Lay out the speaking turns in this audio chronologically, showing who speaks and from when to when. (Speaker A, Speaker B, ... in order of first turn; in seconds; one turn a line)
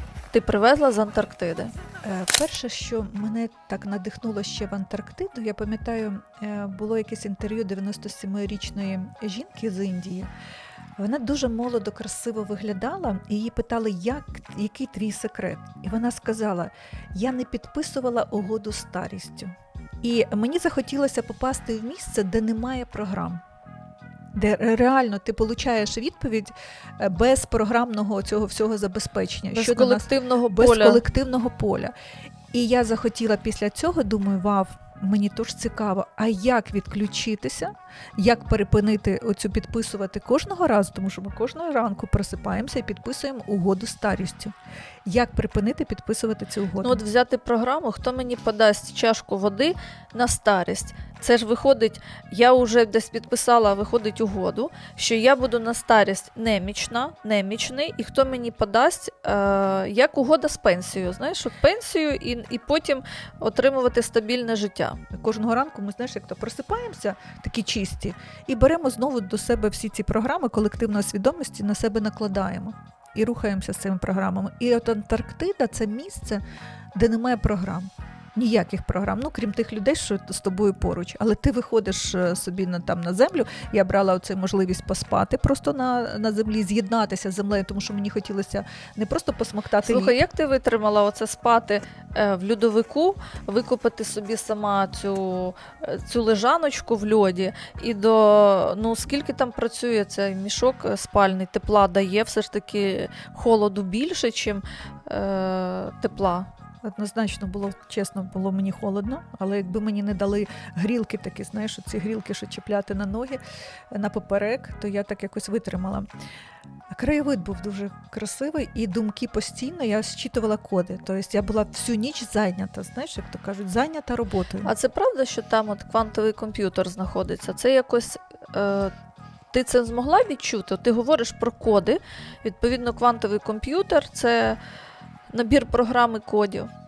Speaker A: 0.3-1.7
Speaker B: 2.0-10.3
Speaker B: 11.0-23.4
Speaker B: 24.3-31.9
Speaker A: 29.5-31.0
Speaker B: 32.5-44.5
Speaker B: 45.1-47.0
Speaker A: 46.8-65.0
Speaker B: 65.1-76.4
Speaker B: 77.0-90.2
Speaker A: 89.8-106.5
Speaker B: 106.8-116.1
Speaker B: 116.9-124.7
Speaker A: 124.7-128.9
Speaker A: 129.5-134.6
Speaker A: 135.3-136.7